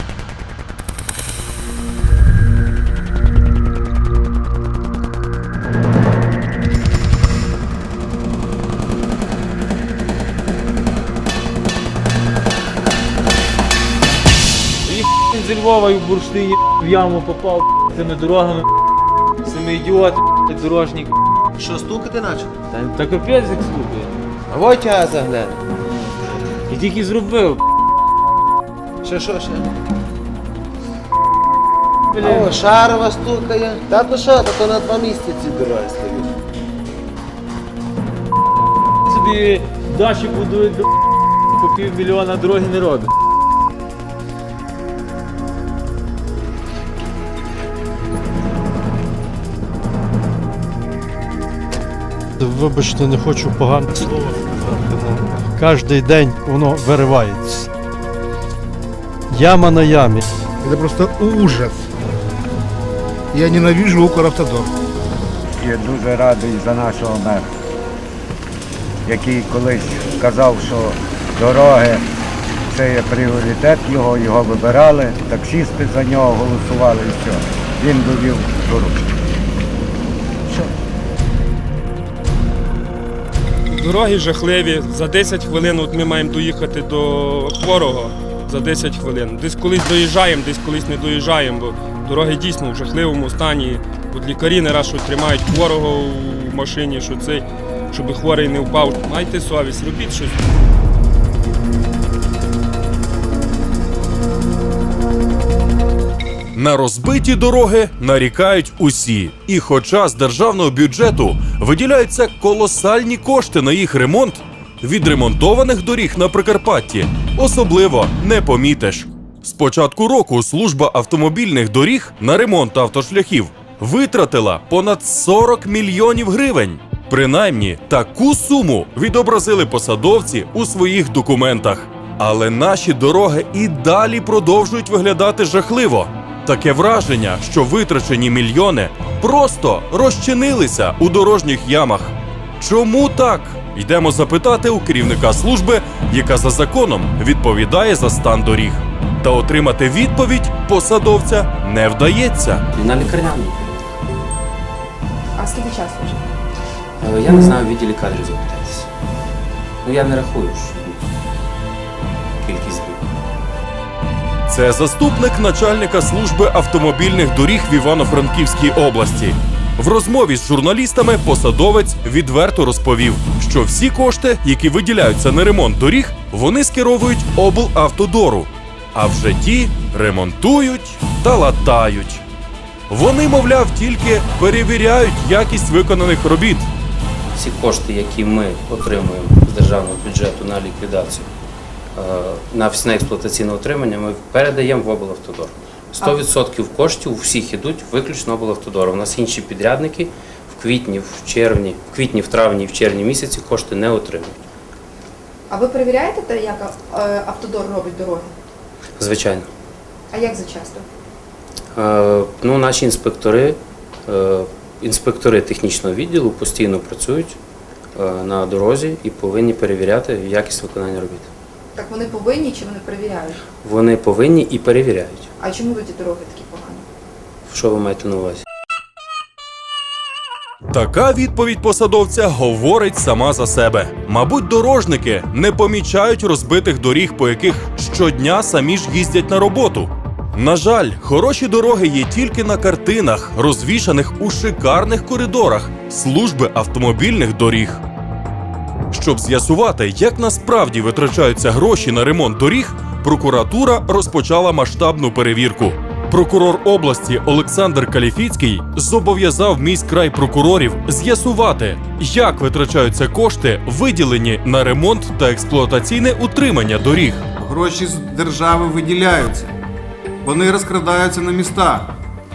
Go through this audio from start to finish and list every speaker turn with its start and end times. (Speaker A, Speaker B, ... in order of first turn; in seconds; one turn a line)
Speaker A: 14.8-18.6
Speaker A: 19.4-21.1
Speaker A: 22.7-24.2
Speaker B: 24.5-25.6
Speaker A: 26.7-27.6
Speaker B: 29.1-29.5
Speaker A: 32.1-32.7
Speaker B: 32.8-36.2
Speaker A: 39.1-40.9
Speaker A: 41.5-43.1
Speaker C: 52.4-57.7
Speaker C: 59.3-60.2
Speaker D: 60.6-61.9
Speaker D: 63.3-64.7
Speaker E: 65.6-67.5
Speaker E: 69.0-72.0
Speaker E: 72.7-79.0
Speaker F: 83.7-100.4
Speaker G: 106.5-152.6
Speaker H: 152.7-153.9
Speaker I: 155.3-156.2
Speaker H: 157.0-158.9
Speaker H: 159.8-161.0
Speaker H: 162.4-163.0
Speaker G: 164.5-182.2
Speaker G: 182.9-186.7
Speaker H: 187.3-191.3
Speaker H: 191.9-204.3
Speaker I: 196.0-196.3
Speaker I: 205.5-208.3
Speaker H: 209.0-209.5
Speaker I: 210.1-210.8
Speaker H: 211.8-217.3
Speaker H: 218.0-221.3
Speaker I: 221.7-223.4
Speaker H: 223.6-225.3
Speaker I: 225.4-226.8
Speaker H: 227.5-228.4
Speaker G: 230.7-247.8
Speaker G: 248.9-267.2
Speaker J: 267.4-269.5
Speaker J: 270.2-271.9